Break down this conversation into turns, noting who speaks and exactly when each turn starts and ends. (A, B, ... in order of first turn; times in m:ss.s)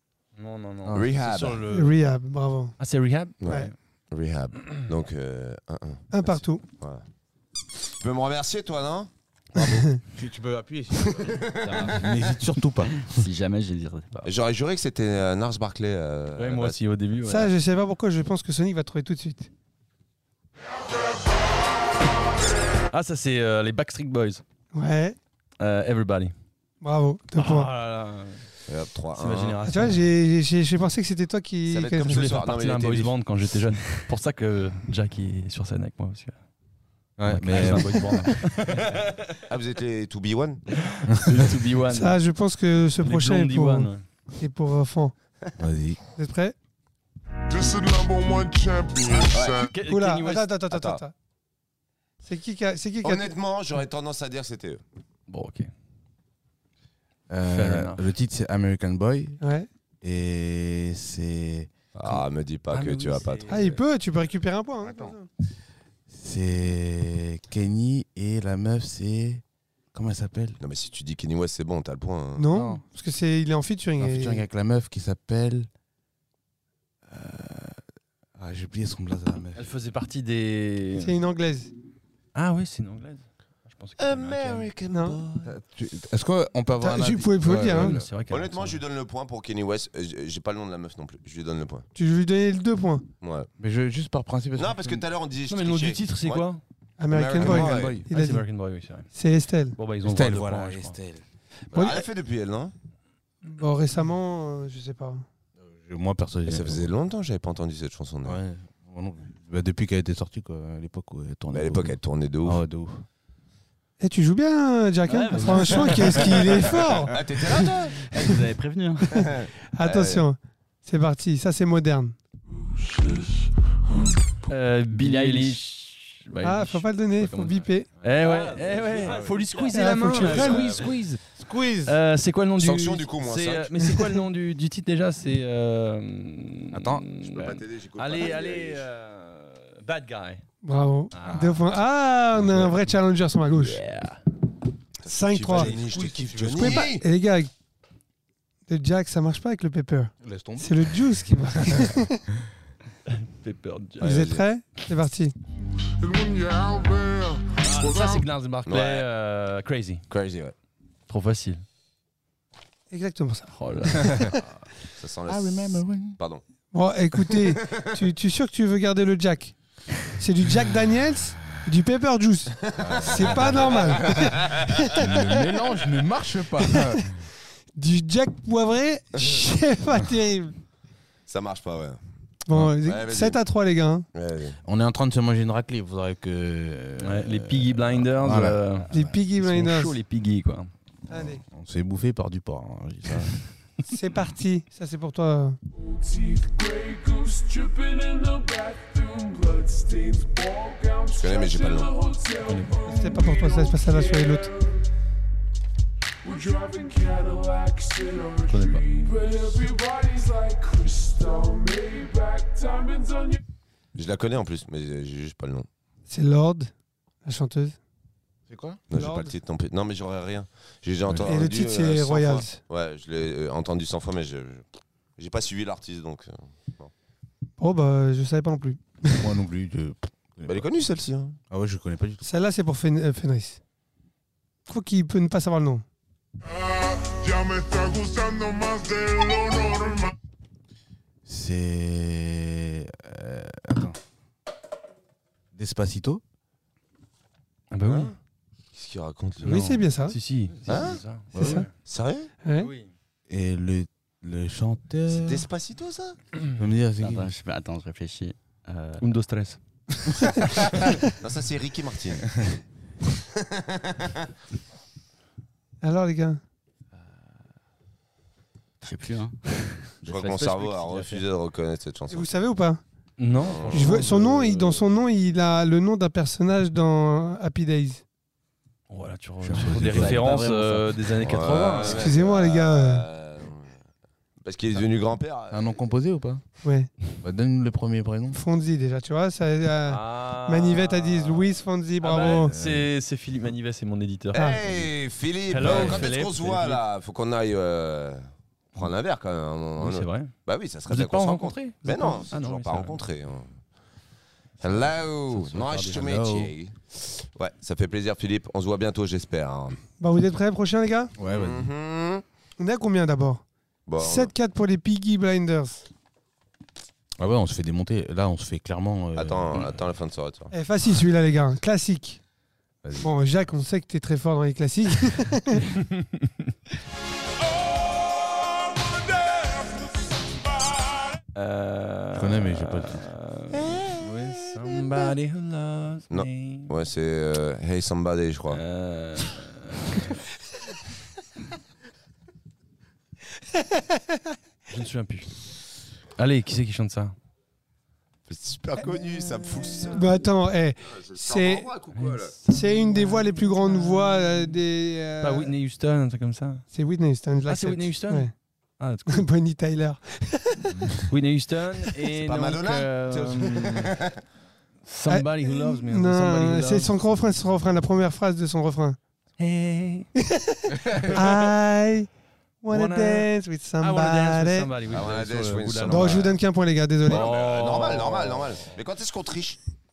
0:00.4-0:01.9 A
0:00.8-0:01.6 B
0:00.9-0:01.6 C
0:01.7-0:02.8 D
0:02.8-0:03.7 A
0:03.4-0:06.1 C
0:06.1-0:06.6 D
0:06.6-0:07.0 C
0:07.9-0:09.1 C
0:09.6-0:10.0 D
0:10.0-0:13.3 B
0:11.0-0:12.0 C
0:11.6-0:12.1 E
0:13.1-0:14.3 E
0:14.2-0:16.8 C
0:16.4-0:17.5 A
0:17.2-0:19.5 D
0:22.9-0:24.4 A
0:24.7-0:25.2 D
0:25.6-0:26.3 A
0:26.8-0:27.7 D
0:27.4-0:28.5 A
0:28.7-0:29.6 C
0:29.1-0:30.0 A
0:29.7-0:32.4 D
0:31.7-0:33.1 C
0:32.1-0:36.4 A
0:37.2-0:38.4 B
0:37.3-0:39.4 A
0:39.5-0:40.6 C
0:40.7-0:42.2 A
0:41.9-0:45.1 D
0:43.0-0:44.0 A
0:45.6-0:46.0 B
0:46.2-0:46.6 D
0:47.5-0:49.7 F
0:49.3-0:49.7 C
0:49.6-0:50.5 A
0:49.8-0:51.1 D
0:50.7-0:51.0 C
0:52.2-0:53.3 D
0:53.0-0:54.8 C
0:55.3-0:55.7 A
0:57.3-0:59.4 B
0:57.5-0:58.1 A
0:59.4-0:59.7 D
1:00.0-1:02.2 B
1:02.0-1:03.8 C
1:02.7-1:03.6 A
1:03.5-1:05.3 D
1:04.9-1:05.1 B
1:06.1-1:09.4 B
1:09.9-1:10.6 B
1:10.6-1:12.5 C
1:12.4-1:14.4 D
1:12.5-1:12.8 B
1:14.0-1:15.7 B
1:17.1-1:17.8 B
1:18.4-1:19.7 B
1:19.6-1:21.2 A
1:21.0-1:21.7 D
1:22.4-1:24.7 A
1:24.0-1:25.6 C
1:24.9-1:25.2 D
1:25.4-1:28.1 B
1:26.8-1:28.0 D
1:27.5-1:28.8 A
1:28.3-1:31.9 C
1:32.0-1:33.0 D
1:33.2-1:33.5 C
1:33.6-1:35.0 B
1:34.6-1:36.5 C
1:35.5-1:36.6 A
1:37.0-1:38.5 D
1:37.1-1:38.0 C
1:37.4-1:39.1 A
1:39.1-1:39.8 D
1:39.8-1:41.0 A
1:40.0-1:41.2 B
1:41.7-1:42.1 D
1:41.7-1:42.7 C
1:43.4-1:45.2 D
1:45.6-1:46.9 B
1:46.4-1:48.4 C
1:48.2-1:53.0 B
1:51.5-1:52.6 C
1:54.0-1:57.2 D
1:55.1-1:56.4 E
1:56.7-1:58.1 C
1:58.0-1:59.3 E
1:59.2-2:00.3 C
1:59.8-2:02.2 D
2:02.8-2:03.5 F
2:04.5-2:11.2 A
2:05.0-2:05.6 E
2:06.4-2:07.9 D
2:08.2-2:09.8 E
2:09.0-2:09.3 B
2:09.7-2:10.8 D
2:10.2-2:10.7 C
2:11.4-2:12.0 B
2:11.8-2:20.4 A
2:12.6-2:14.0 C
2:16.7-2:17.0 B
2:17.2-2:18.8 C
2:20.6-2:23.8 D
2:21.1-2:21.4 A
2:21.2-2:21.6 B
2:23.6-2:24.2 A
2:25.0-2:27.1 C
2:25.0-2:25.7 D
2:25.4-2:26.9 B
2:26.6-2:27.5 D
2:28.7-2:32.2 D
2:30.2-2:31.0 B
2:33.1-2:34.2 A
2:34.0-2:34.4 C
2:34.0-2:35.4 D
2:36.0-2:38.3 F
2:37.6-2:40.0 A
2:38.7-2:39.1 C
2:40.1-2:40.6 C
2:41.1-2:41.6 A
2:42.9-2:43.5 D
2:43.5-2:44.5 A
2:44.0-2:44.3 B
2:45.0-2:46.4 C
2:45.3-2:46.2 B
2:46.7-2:49.5 D
2:47.3-2:48.0 C
2:50.1-2:55.3 D
2:52.6-2:54.9 C
2:52.8-2:57.2 B
2:56.6-2:57.0 D
2:57.8-3:00.6 D
2:59.2-2:59.4 C
3:01.3-3:02.0 C
3:02.5-3:04.1 D
3:02.8-3:03.4 C
3:04.1-3:04.6 C
3:04.6-3:08.6 B
3:07.0-3:10.7 A
3:08.9-3:09.9 D
3:11.1-3:11.4 D
3:11.1-3:13.4 B
3:13.9-3:15.6 D
3:15.8-3:24.7 F
3:21.1-3:21.9 C
3:22.4-3:22.8 A
3:22.9-3:24.5 D
3:26.2-3:33.4 F
3:28.5-3:28.8 A
3:34.0-3:35.7 C
3:36.1-3:36.7 D
3:37.2-3:37.8 D
3:38.5-3:38.8 B
3:38.9-3:44.6 C
3:38.9-3:39.4 D
3:41.1-3:41.4 B
3:41.2-3:42.6 D
3:45.2-3:46.9 C
3:47.6-3:49.3 D
3:49.2-3:50.7 B
3:50.5-3:51.4 C
3:51.5-3:52.3 B
3:52.2-3:53.6 D
3:54.7-3:55.8 D
3:56.4-4:00.2 F
4:01.3-4:04.0 B
4:05.6-4:06.2 B
4:07.7-4:08.2 A
4:07.8-4:08.1 C
4:08.7-4:09.7 C
4:09.4-4:10.2 D
4:09.5-4:11.7 A
4:10.7-4:11.0 C
4:11.4-4:11.6 B
4:11.4-4:11.7 D
4:11.8-4:12.3 C
4:12.4-4:12.7 D
4:12.6-4:12.9 A
4:13.3-4:15.4 B
4:15.1-4:16.2 C
4:16.6-4:17.3 B
4:17.0-4:19.0 E
4:19.0-4:19.6 A
4:21.1-4:22.4 C
4:23.3-4:24.3 C
4:25.8-4:26.4 D
4:28.8-4:31.2 E
4:30.0-4:32.3 C
4:32.1-4:32.8 D
4:33.2-4:34.2 A
4:33.4-4:34.6 C
4:33.7-4:38.0 D
4:38.9-4:42.1 A
4:39.4-4:40.4 B
4:39.5-4:41.3 E
4:41.2-4:43.7 C
4:41.4-4:41.9 B
4:41.8-4:43.1 D
4:44.4-4:45.7 C
4:45.5-4:46.4 B
4:46.6-4:46.9 D
4:47.2-4:48.4 B
4:48.3-4:52.5 D
4:49.9-4:54.9 A
4:52.2-4:52.9 B
4:54.3-4:54.6 D
4:54.3-4:58.2 C
4:55.5-4:56.8 A
4:55.7-4:56.0 B
4:58.8-5:03.5 C
4:59.8-5:00.3 A
5:00.9-5:03.0 A
5:04.6-5:09.8 C
5:05.4-5:06.5 B
5:10.0-5:11.1 D
5:11.2-5:11.7 B
5:11.2-5:12.2 C
5:12.6-5:13.4 D
5:13.9-5:14.3 C
5:14.0-5:15.8 D
5:17.2-5:19.7 B
5:19.2-5:20.5 C
5:20.5-5:22.2 D
5:23.0-5:25.7 D
5:25.7-5:26.3 A
5:31.4-5:36.7 A
5:32.2-5:33.0 B
5:36.1-5:38.6 C
5:38.5-5:40.2 A
5:44.7-5:45.3 A
5:46.2-5:47.2 A
5:48.3-5:50.1 C
5:49.9-5:51.7 D
5:50.9-5:52.4 C
5:52.0-5:54.5 A
5:52.5-5:55.5 D
5:55.2-5:56.7 A
5:56.7-5:58.3 D
5:57.5-5:59.3 A
5:59.1-6:00.8 D
6:00.8-6:01.0 B
6:01.1-6:04.0 A
6:02.1-6:04.2 C
6:04.9-6:06.9 A
6:05.1-6:09.0 D
6:09.4-6:10.1 A
6:10.2-6:12.1 D
6:10.8-6:11.1 B
6:11.0-6:11.4 A
6:12.6-6:14.7 D
6:12.7-6:13.3 A
6:13.8-6:16.4 A
6:14.9-6:16.3 C
6:15.9-6:17.3 D
6:17.0-6:18.8 A
6:17.1-6:19.6 C